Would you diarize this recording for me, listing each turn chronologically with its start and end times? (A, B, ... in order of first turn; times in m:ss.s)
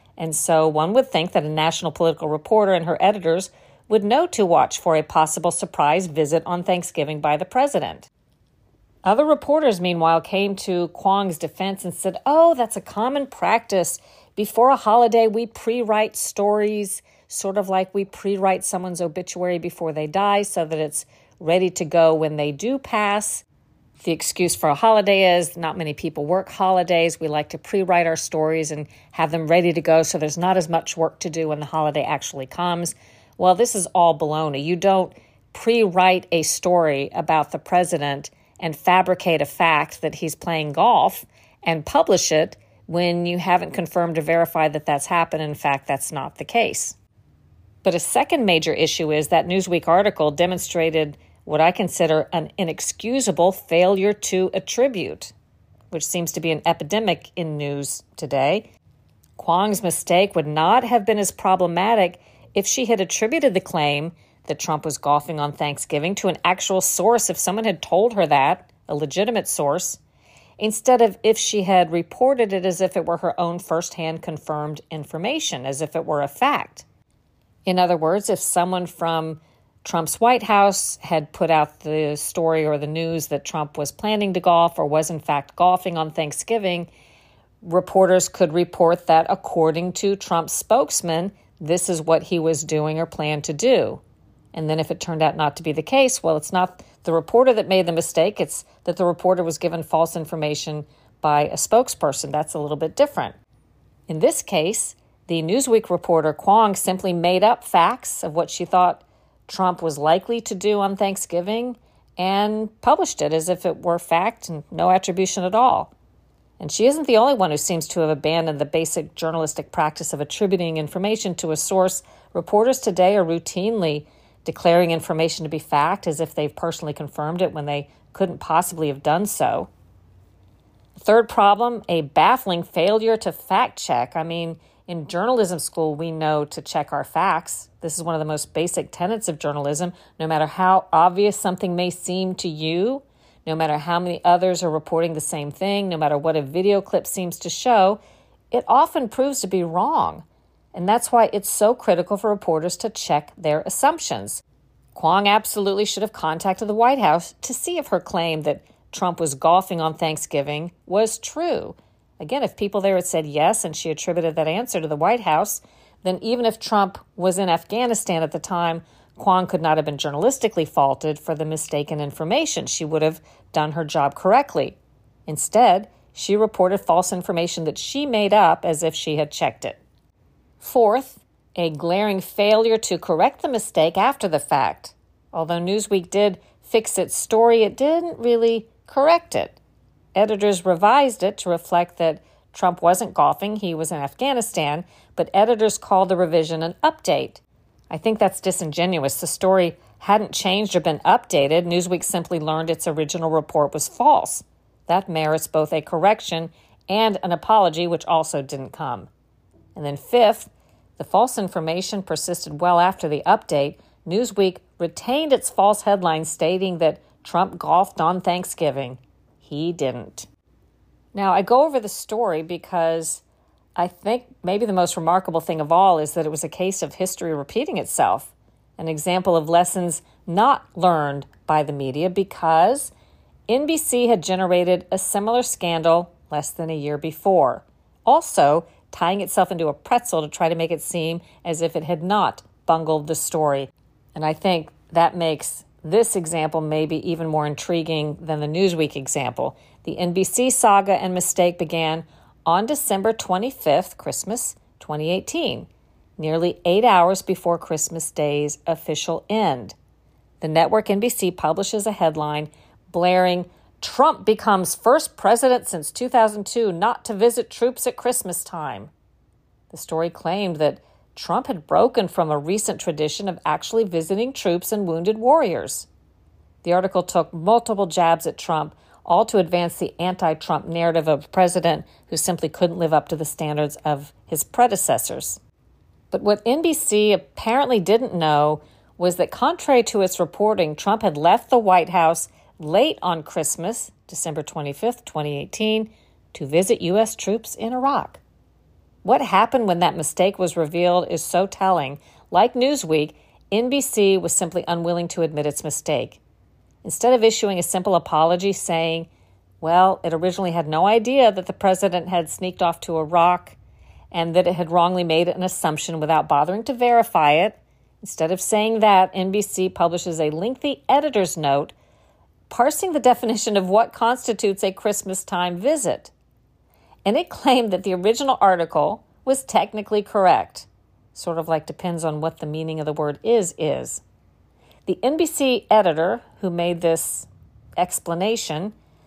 0:00.2-0:08.1 A
0:09.0-0:23.4 A
0:24.0-0:47.0 A
0:47.8-0:55.3 A
0:55.9-0:58.7 A
0:59.4-1:10.0 A
1:10.6-1:16.8 A
1:17.6-1:26.9 A
1:27.6-1:34.0 A
1:34.5-1:43.4 A
1:44.1-1:55.9 A
1:56.6-2:09.7 A
2:11.0-2:28.0 A
2:28.5-2:34.4 A
2:34.9-2:54.8 A
2:55.3-2:59.8 A
3:00.6-3:09.6 A
3:10.1-3:29.1 A
3:29.7-3:40.3 A
3:41.1-3:43.2 A
3:43.8-3:52.9 A
3:53.5-4:19.8 A
4:20.4-4:28.9 A
4:29.7-4:35.9 A
4:36.6-4:45.4 A
4:46.1-4:58.2 A
4:59.0-5:06.2 A
5:06.8-5:09.1 A
5:09.6-5:13.6 A
5:14.1-5:21.7 A
5:22.5-5:26.1 A
5:27.0-5:34.0 A
5:34.8-5:38.7 A